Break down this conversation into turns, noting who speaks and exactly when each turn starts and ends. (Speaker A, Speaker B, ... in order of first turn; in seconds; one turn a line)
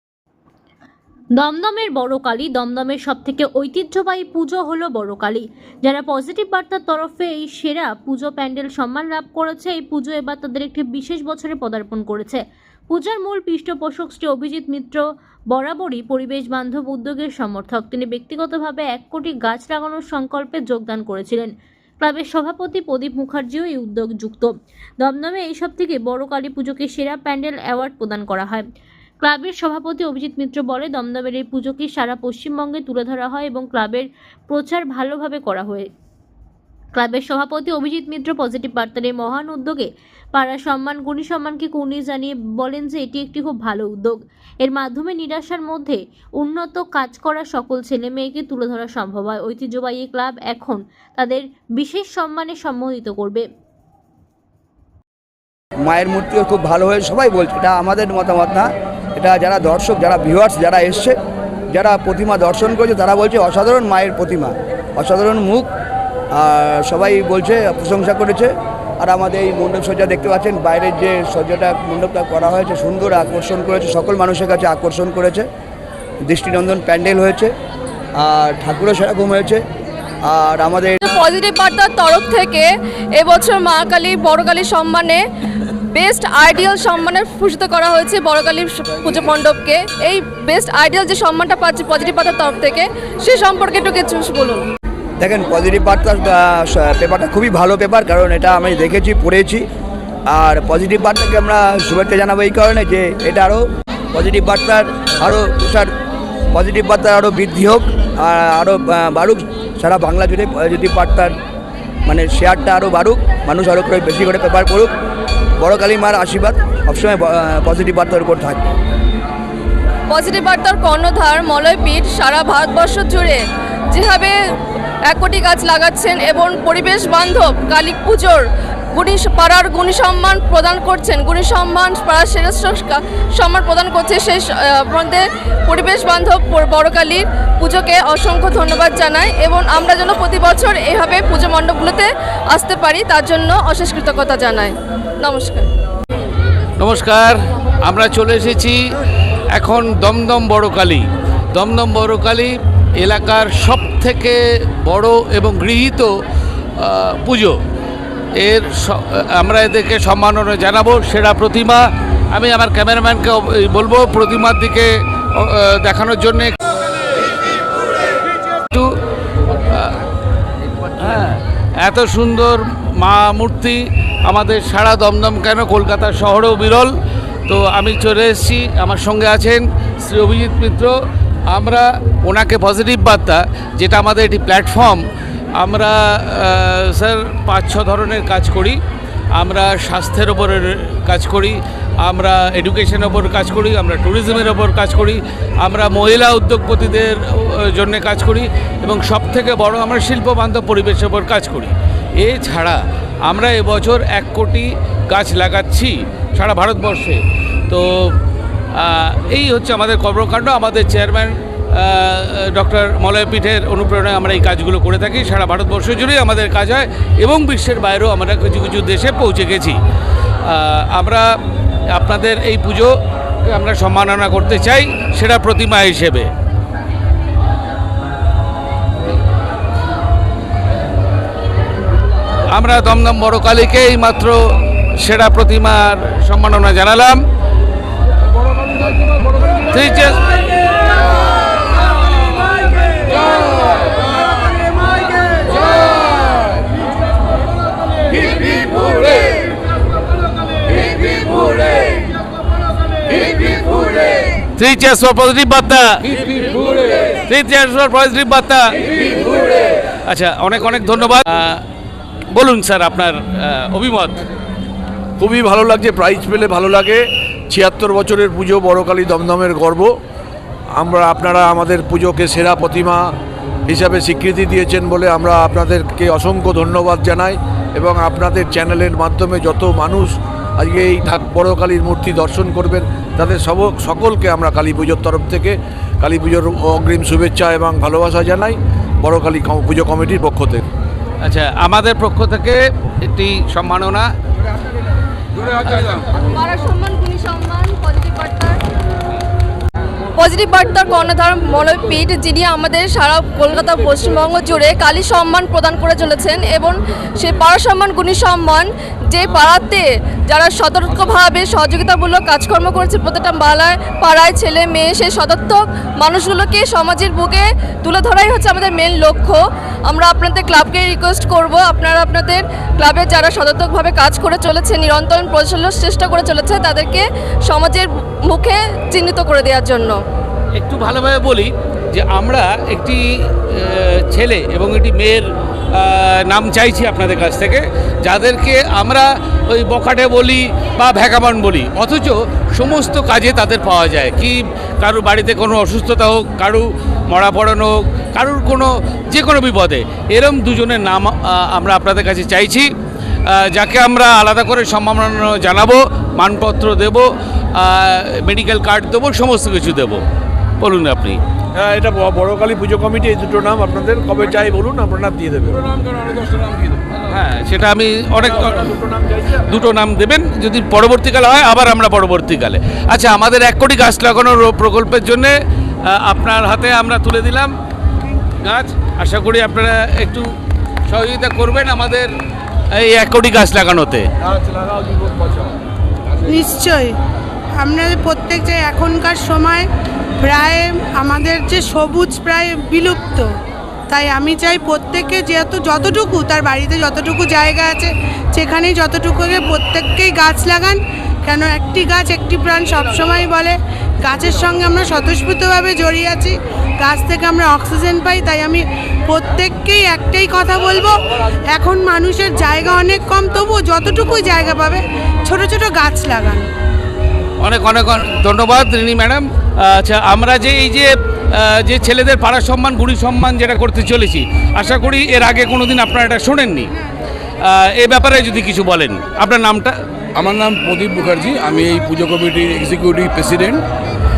Speaker A: 1.3-28.6
Speaker A: 29.2-35.9
Speaker A: 37.0-53.5
Speaker B: 55.8-61.1
Speaker B: 61.7-65.7
Speaker B: 66.3-75.5
Speaker B: 76.3-77.5
Speaker B: 78.2-79.6
Speaker B: 80.3-81.0
Speaker C: 81.0-82.7
Speaker C: 83.2-85.2
Speaker C: 85.9-94.6
Speaker B: 95.2-99.7
Speaker B: 100.3-105.9
Speaker B: 106.5-111.3
Speaker B: 112.1-114.9
Speaker B: 115.6-118.7
Speaker C: 120.1-124.3
Speaker C: 125.1-145.7
Speaker D: 146.8-148.8
Speaker D: 149.5-156.1
Speaker D: 156.8-157.6
Speaker D: 158.3-166.6
Speaker D: 168.7-169.0
Speaker D: 169.7-169.9
Speaker D: 171.0-176.9
Speaker D: 177.5-180.9
Speaker D: 181.5-185.0
Speaker D: 185.6-188.8
Speaker D: 189.3-208.2
Speaker D: 208.7-219.8
Speaker D: 220.4-221.3
Speaker D: 221.9-222.9
Speaker D: 223.4-226.3
Speaker D: 232.5-234.4
Speaker D: 235.0-237.2
Speaker D: 239.7-240.3
Speaker D: 254.6-261.6
Speaker D: 262.3-264.2
Speaker E: 265.2-269.9
Speaker E: 270.8-273.1
Speaker E: 273.7-290.6
Speaker D: 291.2-294.1
Speaker F: 295.4-296.1
Speaker C: 296.2-298.6
Speaker C: 300.2-330.0
Speaker D: 330.5-352.7
Speaker D: 353.3-360.0
Speaker D: 360.6-361.2
Speaker E: 361.6-365.6
Speaker F: 365.5-367.0
Speaker D: 367.1-368.8
Speaker E: 368.2-369.4
Speaker D: 369.5-377.5
Speaker D: 378.4-380.2
Speaker D: 380.9-382.1
Speaker D: 382.7-384.1
Speaker E: 384.3-385.5
Speaker G: 386.3-386.9
Speaker G: 387.6-389.7
Speaker G: 390.2-393.3
Speaker G: 393.9-411.0
Speaker G: 411.5-416.5
Speaker D: 417.4-426.7
Speaker D: 427.4-429.8
Speaker F: 430.1-433.6